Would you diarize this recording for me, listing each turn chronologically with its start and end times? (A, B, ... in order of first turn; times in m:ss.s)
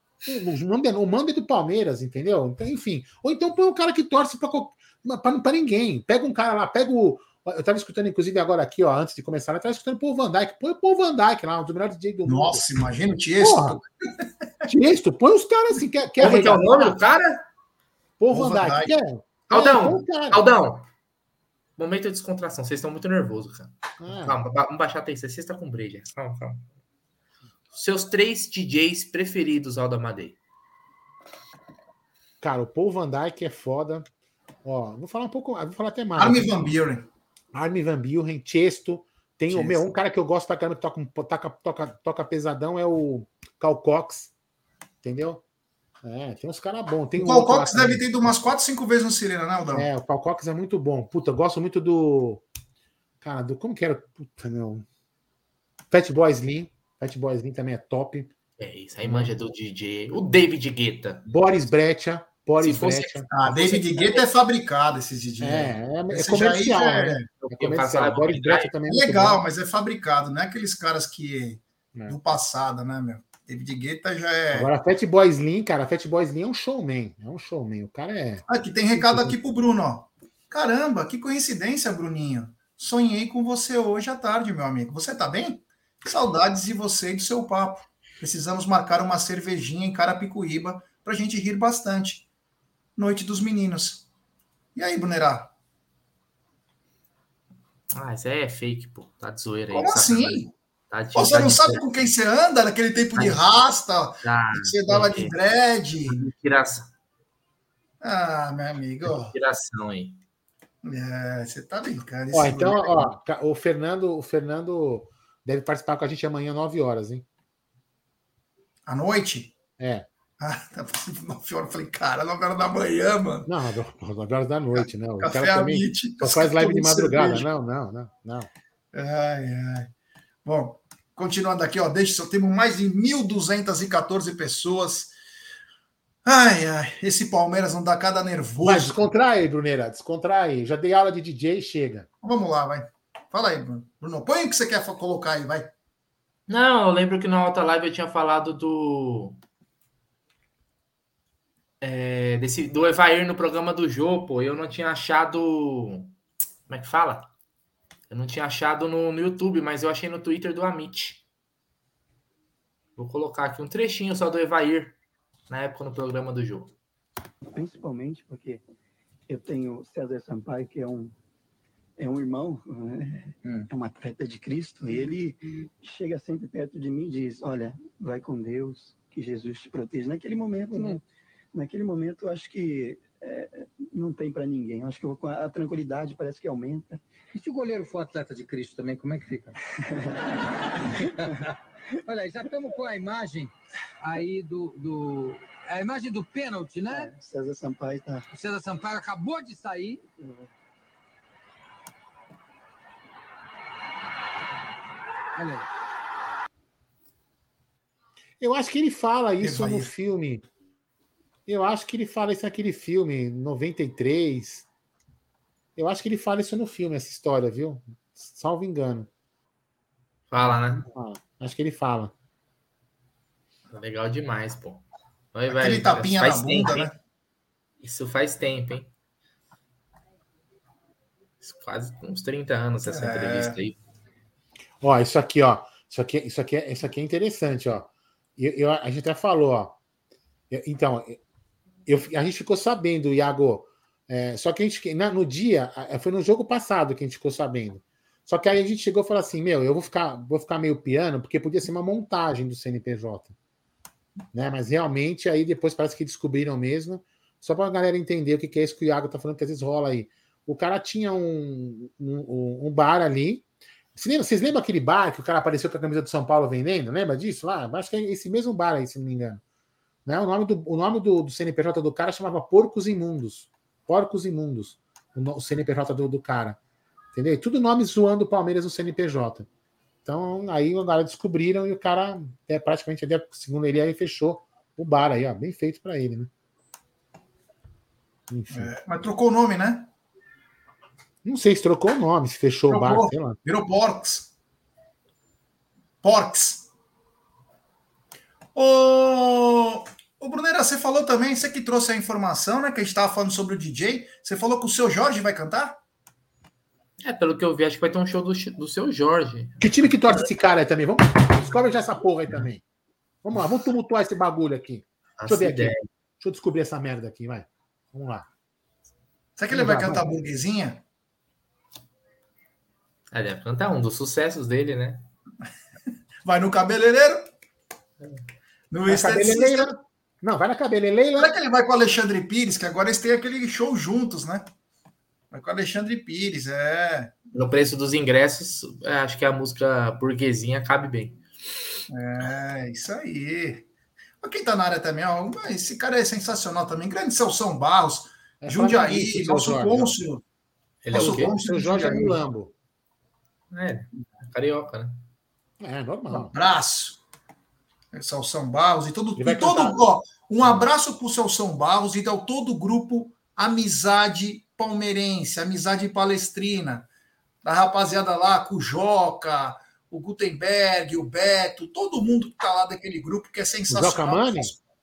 0:00.2-0:12.6 A
0:12.2-0:13.8 B
0:13.4-0:13.8 A
0:14.7-0:17.0 A
0:16.2-0:17.5 C
0:18.2-0:20.4 A
0:18.3-0:18.9 B
0:19.5-0:20.8 C
0:21.8-0:26.7 C
0:24.0-0:24.4 A
0:27.7-0:30.4 C
0:32.4-0:34.0 A
0:34.6-0:36.5 A
0:36.2-0:37.1 B
0:37.5-0:44.3 A
0:39.5-0:39.8 B
0:45.0-0:45.4 A
0:46.0-0:48.3 A
0:47.2-0:49.9 B
0:49.7-0:52.4 A
0:53.2-0:54.8 A
0:55.9-0:58.3 A
0:58.6-1:01.2 C
0:59.0-0:59.3 A
1:01.3-1:03.3 A
1:02.6-1:04.2 C
1:03.3-1:07.3 B
1:05.4-1:09.4 A
1:07.4-1:08.7 C
1:08.9-1:14.7 B
1:14.5-1:19.4 A
1:18.5-1:32.2 B
1:33.0-1:34.0 B
1:34.8-1:35.5 B
1:37.9-1:41.8 C
1:39.7-1:40.5 B
1:41.1-1:46.2 B
1:43.2-1:43.4 C
1:44.2-1:45.3 C
1:46.0-1:46.9 C
1:48.0-1:49.3 B
1:49.0-1:50.2 C
1:50.8-1:53.1 B
1:52.3-1:57.2 A
1:58.8-1:59.5 B
1:59.8-2:00.1 A
2:00.4-2:03.5 B
2:03.4-2:08.5 A
2:04.7-2:07.4 B
2:08.9-2:09.9 B
2:10.4-2:15.1 B
2:16.2-2:19.0 B
2:18.6-2:22.0 A
2:22.2-2:25.7 B
2:26.5-2:29.4 C
2:31.8-2:36.1 C
2:36.7-2:37.3 C
2:38.1-2:41.2 C
2:43.0-2:45.0 C
2:45.5-2:46.7 C
2:47.5-2:48.6 D
2:49.3-2:51.1 D
2:52.0-3:01.0 D
3:01.5-3:07.0 D
3:07.3-3:09.5 E
3:09.8-3:10.2 D
3:11.0-3:11.5 E
3:12.0-3:17.1 E
3:16.9-3:18.2 D
3:18.3-3:20.0 E
3:25.4-3:25.6 E
3:28.4-3:30.4 A
3:29.4-3:29.9 B
3:31.5-3:34.6 A
3:35.8-3:39.1 A
3:40.3-3:40.8 C
3:40.4-3:42.1 A
3:43.7-3:46.9 C
3:45.5-3:47.0 B
3:47.8-3:48.9 C
3:51.4-3:53.8 C
3:52.8-3:53.6 B
3:54.8-3:59.8 A
4:00.5-4:01.2 A
4:01.8-4:13.3 A
4:14.3-4:29.4 A
4:30.0-4:36.6 A
4:37.1-4:39.5 A
4:40.0-4:46.3 A
4:48.3-4:48.7 A
4:48.5-4:49.9 B
4:51.2-4:53.4 A
4:52.7-4:54.3 B
4:56.0-4:56.7 B
4:58.5-5:05.8 B
5:07.0-5:10.3 C
5:09.6-5:12.6 A
5:13.2-5:18.3 A
5:15.2-5:15.8 C
5:19.4-5:20.8 B
5:19.5-5:20.0 A
5:23.1-5:25.1 C
5:26.2-5:27.3 B
5:28.7-5:29.8 B
5:28.9-5:31.3 A
5:31.2-5:34.5 B
5:35.3-5:37.1 B
5:37.3-5:41.2 C
5:41.9-5:43.6 B
5:44.2-5:50.2 B
5:48.4-5:49.9 A
5:50.8-5:51.3 C
5:50.9-5:52.2 B
5:51.0-5:52.5 A
5:53.5-5:55.0 C
5:55.6-5:56.3 A
5:56.2-5:57.0 B
5:57.9-6:06.9 B
5:59.2-5:59.8 A
6:07.4-6:14.6 B
6:13.7-6:14.5 A